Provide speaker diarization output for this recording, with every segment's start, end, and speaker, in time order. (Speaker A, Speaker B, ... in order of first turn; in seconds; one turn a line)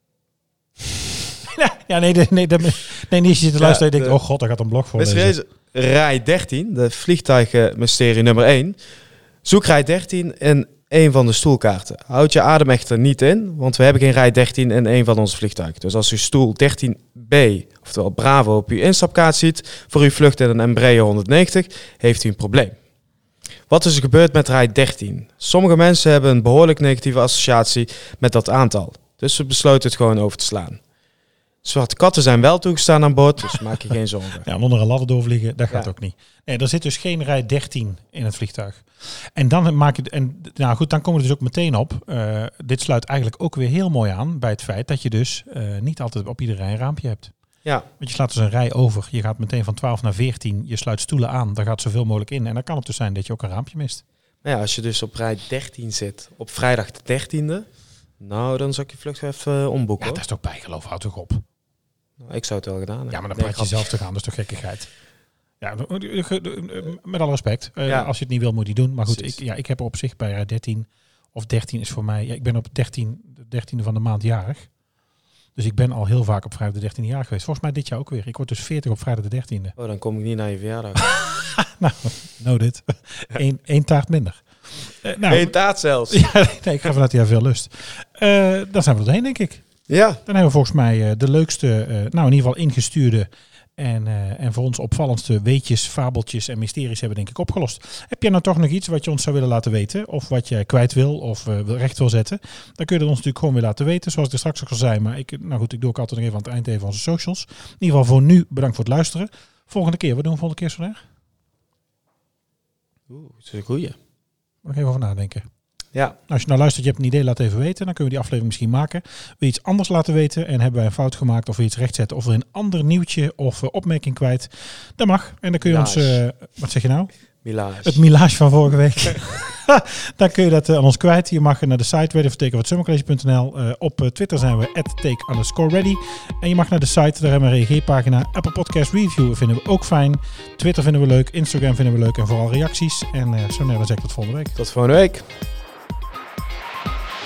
Speaker A: 1.4-5.4
Speaker B: 3.6-4.2
Speaker B: 5.0-8.8
Speaker B: 9.4-22.8
Speaker B: 23.7-30.8
Speaker B: 31.6-34.5
Speaker A: 34.5-47.3
Speaker A: 48.0-54.0
Speaker B: 54.4-57.7
Speaker B: 58.2-60.2
Speaker A: 60.0-61.4
Speaker B: 62.2-63.8
Speaker A: 63.1-64.9
Speaker A: 65.6-74.7
Speaker B: 67.9-68.1
Speaker B: 69.1-69.4
Speaker A: 75.6-79.8
Speaker B: 79.8-81.2
Speaker A: 81.1-85.5
Speaker B: 85.2-86.3
Speaker A: 86.1-89.7
Speaker B: 89.9-90.2
Speaker A: 90.3-111.0
Speaker B: 113.1-114.0
Speaker A: 114.6-115.5
Speaker A: 116.3-127.1
Speaker B: 125.6-126.2
Speaker B: 127.4-128.0
Speaker A: 127.8-144.6
Speaker B: 144.6-145.3